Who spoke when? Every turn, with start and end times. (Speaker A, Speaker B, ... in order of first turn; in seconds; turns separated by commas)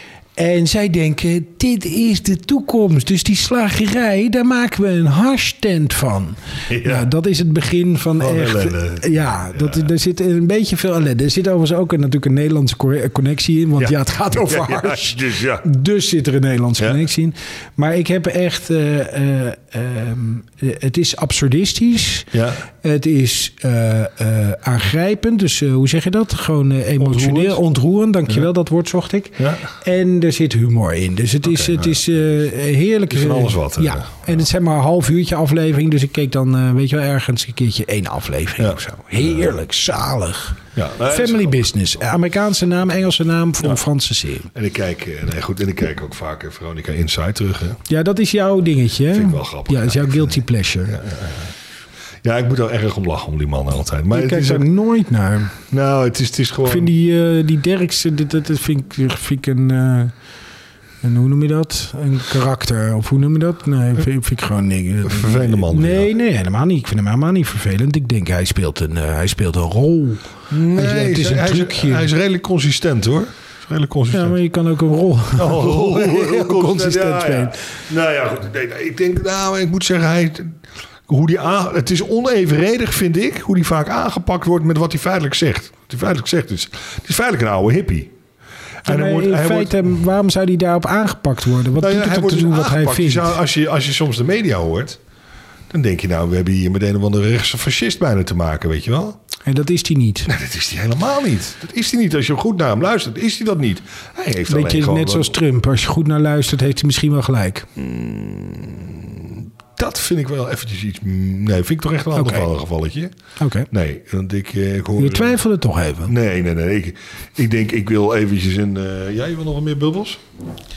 Speaker A: 0.4-22.3, Speaker B: 6.7-7.1, Speaker B: 8.2-9.9, Speaker B: 13.8-15.6, Speaker B: 22.3-22.6, Speaker A: 22.8-44.5, Speaker B: 27.0-27.6, Speaker B: 29.4-29.6, Speaker B: 31.4-32.2, Speaker B: 33.1-34.4, Speaker B: 38.6-39.5, Speaker B: 40.7-41.9, Speaker B: 44.5-47.8, Speaker A: 47.9-51.0, Speaker B: 49.1-51.5, Speaker B: 52.2-54.7, Speaker A: 54.1-55.6, Speaker B: 55.7-56.9, Speaker A: 56.6-60.1, Speaker A: 61.0-72.1, Speaker B: 65.0-66.1, Speaker B: 70.5-74.3, Speaker A: 74.1-77.6, Speaker B: 75.3-88.1, Speaker B: 88.8-89.9, Speaker A: 88.8-93.3, Speaker B: 91.8-95.0, Speaker B: 95.7-99.2, Speaker A: 99.4-100.3, Speaker B: 100.3-105.3, Speaker A: 104.5-107.7, Speaker B: 107.8-113.1, Speaker A: 112.1-112.5, Speaker A: 113.4-113.7, Speaker B: 113.7-115.4, Speaker A: 115.0-116.1, Speaker B: 116.0-120.2